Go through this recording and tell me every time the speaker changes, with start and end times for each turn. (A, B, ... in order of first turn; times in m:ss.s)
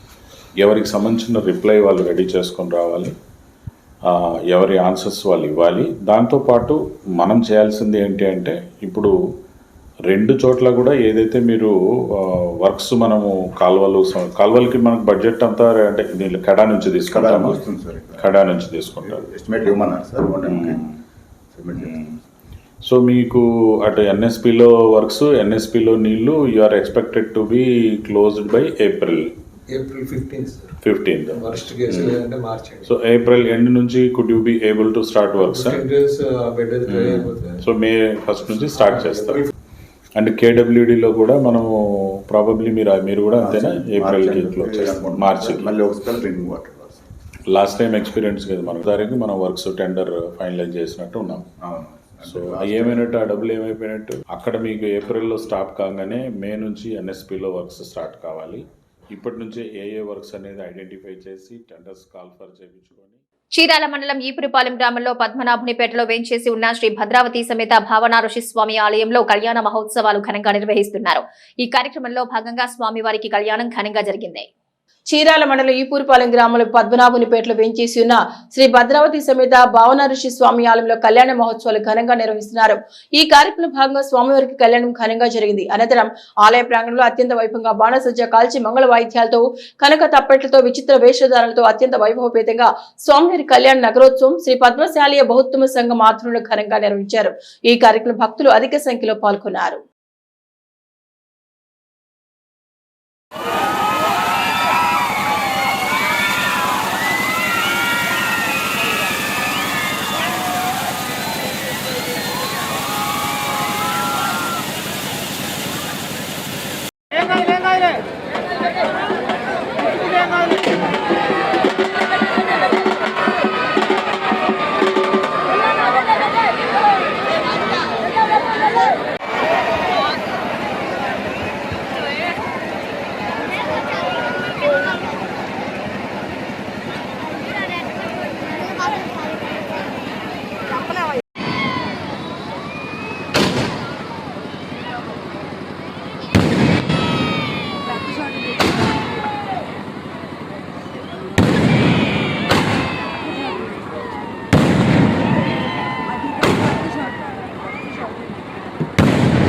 0:00.6-0:03.1 A
0:04.1-0:09.1 A
0:10.1-0:17.6 A
0:17.1-0:18.3 B
0:18.2-0:19.2 A
0:19.0-0:20.9 B
0:20.4-0:20.9 A
0:21.6-0:21.9 B
0:21.8-0:22.2 A
0:22.8-0:29.3 A
0:29.7-0:30.7 C
0:30.8-0:32.2 A
0:31.3-0:32.9 C
0:32.8-0:35.8 A
0:35.4-0:37.6 C
0:36.9-0:39.4 A
0:39.0-0:39.4 C
0:40.2-0:45.7 A
0:43.4-0:47.0 B
0:47.5-0:51.5 A
0:51.6-0:53.0 B
0:52.2-1:03.2 A
1:03.5-1:14.5 D
1:15.1-1:39.8 E